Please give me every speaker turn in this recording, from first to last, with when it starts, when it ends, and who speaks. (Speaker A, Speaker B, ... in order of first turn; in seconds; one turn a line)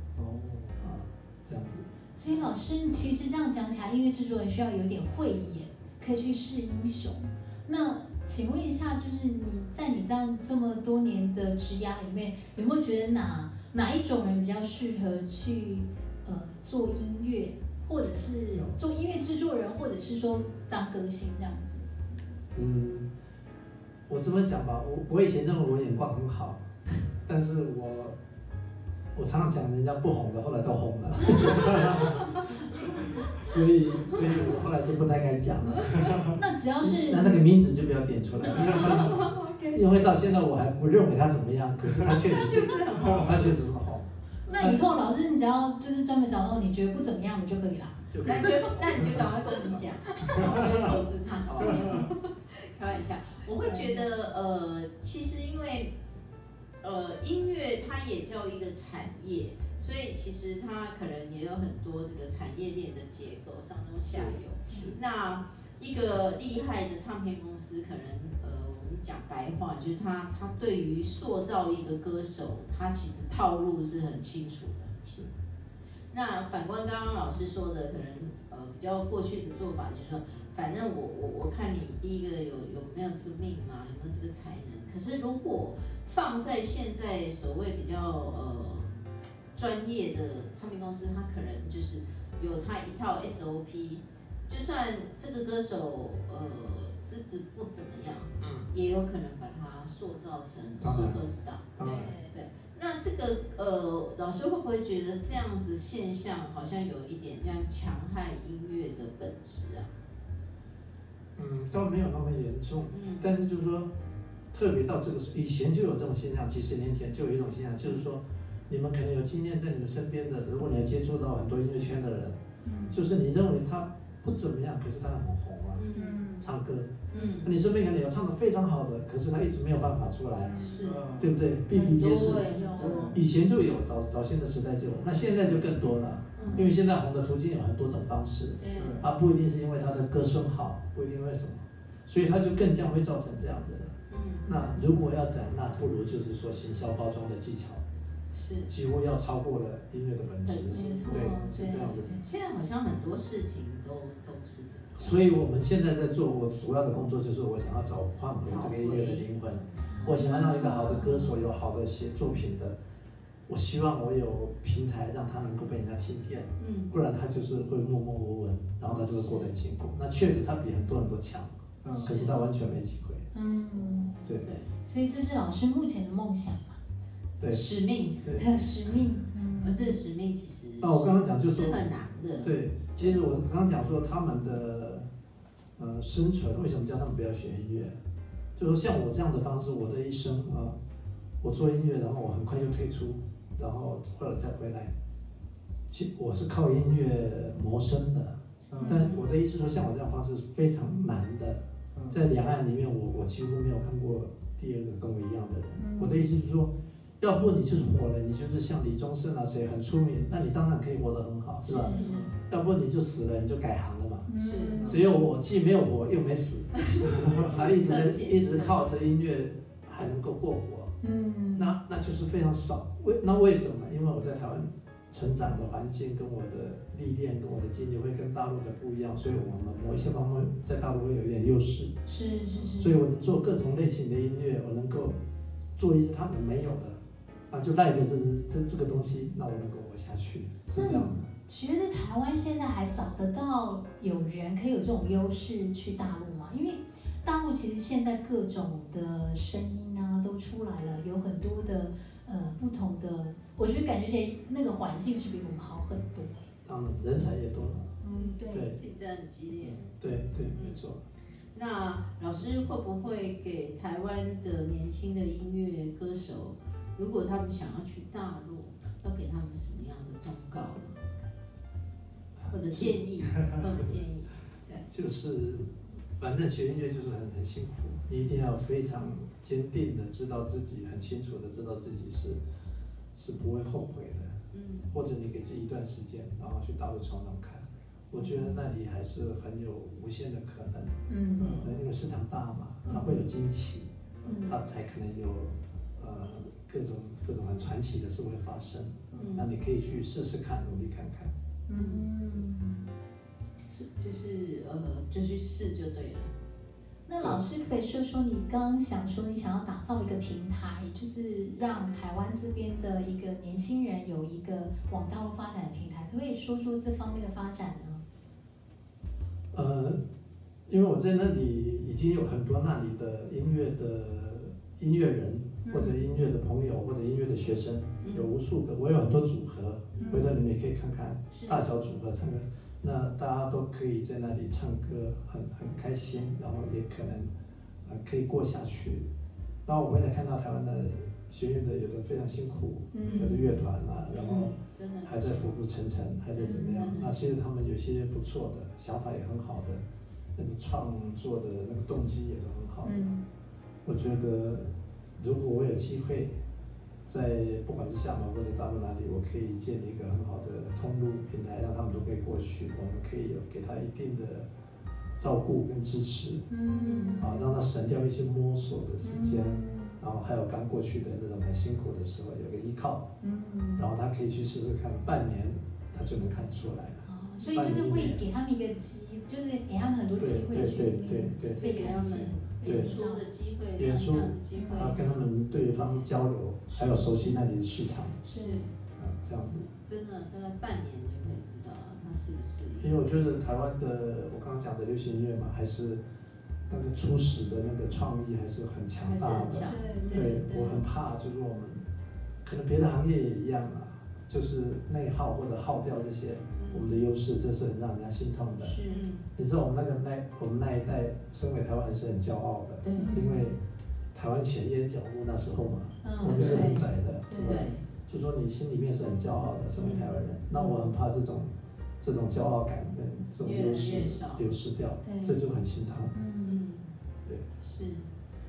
Speaker A: 0.1-0.8
Speaker B: 0.8-1.9
Speaker C: 2.1-21.9
Speaker B: 22.5-23.1
Speaker B: 24.1-26.6
Speaker B: 27.2-28.1
Speaker B: 29.1-32.4
Speaker B: 33.2-36.3
Speaker A: 34.1-34.5
Speaker A: 35.9-36.4
Speaker C: 36.4-37.5
Speaker B: 36.8-44.8
Speaker A: 38.6-39.0
Speaker D: 38.6-39.7
Speaker D: 42.2-43.6
Speaker D: 44.5-44.8
Speaker C: 44.5-48.0
Speaker B: 48.1-49.8
Speaker D: 48.2-55.9
Speaker A: 50.4-50.9
Speaker B: 50.4-50.6
Speaker A: 51.7-52.0
Speaker C: 53.6-54.1
Speaker D: 56.8-74.9
Speaker B: 64.1-65.0
Speaker B: 75.0-75.3
Speaker D: 76.1-88.9
Speaker D: 89.5-109.9
Speaker B: 98.4-98.7
Speaker B: 100.8-101.2
Speaker B: 101.8-102.1
Speaker C: 101.8-102.3
Speaker B: 111.3-113.9
Speaker D: 112.9-113.3
Speaker B: 114.5-122.4
Speaker C: 122.6-123.0
Speaker B: 122.9-125.8
Speaker D: 125.8-126.2
Speaker C: 125.9-126.5
Speaker B: 126.4-147.8
Speaker D: 127.1-127.5
Speaker C: 130.4-131.0
Speaker D: 130.6-131.0
Speaker A: 130.8-131.3
Speaker C: 131.7-133.0
Speaker D: 131.8-133.2
Speaker A: 132.8-133.2
Speaker D: 136.3-136.7
Speaker C: 136.4-136.7
Speaker C: 138.6-138.9
Speaker D: 138.6-139.0
Speaker A: 138.7-139.0
Speaker D: 144.1-144.5
Speaker D: 148.3-148.7
Speaker B: 148.7-152.2
Speaker D: 150.4-151.4
Speaker C: 150.7-152.2
Speaker A: 151.2-151.5
Speaker D: 152.2-155.2
Speaker B: 155.0-162.8
Speaker D: 158.4-159.3
Speaker C: 159.9-161.3
Speaker B: 163.5-173.3
Speaker D: 166.6-166.9
Speaker D: 169.1-169.5
Speaker A: 171.8-172.2
Speaker D: 171.9-172.4
Speaker C: 173.3-174.2
Speaker D: 174.4-174.7
Speaker C: 174.8-176.8
Speaker B: 177.4-177.6
Speaker D: 177.5-178.3
Speaker B: 178.2-178.6
Speaker C: 178.4-180.0
Speaker D: 179.6-183.2
Speaker B: 180.8-181.8
Speaker B: 182.4-185.1
Speaker B: 185.8-188.0
Speaker B: 188.6-190.8
Speaker B: 191.4-194.9
Speaker B: 195.9-214.3
Speaker A: 198.7-199.0
Speaker D: 198.8-199.2
Speaker A: 201.9-202.2
Speaker C: 205.8-206.2
Speaker C: 211.7-212.1
Speaker D: 211.9-212.2
Speaker A: 212.1-212.4
Speaker C: 214.3-215.0
Speaker D: 214.4-214.9
Speaker B: 214.8-220.9
Speaker D: 216.8-218.9
Speaker A: 217.1-217.5
Speaker C: 221.0-221.7
Speaker B: 221.5-231.9
Speaker C: 232.1-232.9
Speaker B: 232.8-235.2
Speaker B: 235.8-237.0
Speaker B: 237.5-241.3
Speaker C: 240.7-256.5
Speaker B: 256.6-257.9
Speaker C: 258.0-258.7
Speaker D: 258.1-259.8
Speaker B: 258.5-258.8
Speaker A: 259.6-259.9
Speaker B: 259.9-261.0
Speaker D: 260.5-260.8
Speaker D: 261.5-271.0
Speaker D: 272.5-274.9
Speaker B: 274.9-282.4
Speaker B: 283.1-284.4
Speaker D: 284.5-284.9
Speaker B: 284.9-291.0
Speaker C: 288.2-288.6
Speaker C: 291.1-291.6
Speaker A: 291.4-291.7
Speaker B: 291.6-301.3
Speaker D: 292.9-293.1
Speaker C: 294.2-294.5
Speaker A: 299.1-299.4
Speaker D: 299.2-299.5
Speaker C: 301.7-302.9
Speaker D: 301.7-302.1
Speaker D: 303.7-306.3
Speaker C: 307.1-318.0
Speaker B: 319.5-320.0
Speaker B: 320.7-337.3
Speaker C: 325.6-326.0
Speaker D: 328.0-328.3
Speaker D: 329.9-330.2
Speaker C: 330.0-330.3
Speaker B: 337.8-339.1
Speaker B: 339.6-349.8
Speaker C: 342.9-343.4
Speaker D: 343.0-343.4
Speaker D: 344.1-345.5
Speaker C: 346.4-346.9
Speaker D: 346.4-347.3
Speaker B: 350.4-353.0
Speaker C: 352.8-353.2
Speaker B: 353.8-356.3
Speaker B: 357.1-364.5
Speaker B: 365.2-366.5
Speaker C: 366.5-367.5
Speaker D: 366.7-367.3
Speaker B: 367.2-373.1
Speaker C: 369.0-370.0
Speaker C: 373.2-373.9
Speaker B: 373.8-378.2
Speaker C: 377.0-383.2
Speaker B: 380.2-381.6
Speaker D: 381.6-385.0
Speaker B: 382.6-382.9
Speaker B: 383.8-388.2
Speaker C: 384.5-384.9
Speaker D: 386.7-387.4
Speaker D: 388.2-388.7
Speaker C: 388.3-388.7
Speaker B: 388.9-389.7
Speaker D: 389.9-393.2
Speaker B: 392.8-396.0
Speaker B: 396.7-401.8
Speaker D: 399.0-400.4
Speaker C: 399.6-400.8
Speaker B: 402.4-408.8
Speaker D: 406.5-406.9
Speaker C: 408.6-409.0
Speaker D: 408.9-409.2
Speaker B: 409.4-413.6
Speaker D: 412.8-413.1
Speaker C: 412.9-413.5
Speaker B: 414.1-426.1
Speaker C: 416.0-417.6
Speaker D: 416.2-416.7
Speaker A: 416.4-416.6
Speaker D: 417.3-417.9
Speaker D: 419.8-420.1
Speaker D: 423.4-424.4
Speaker C: 425.0-425.4
Speaker C: 426.1-426.6
Speaker D: 426.4-426.9
Speaker D: 427.6-428.1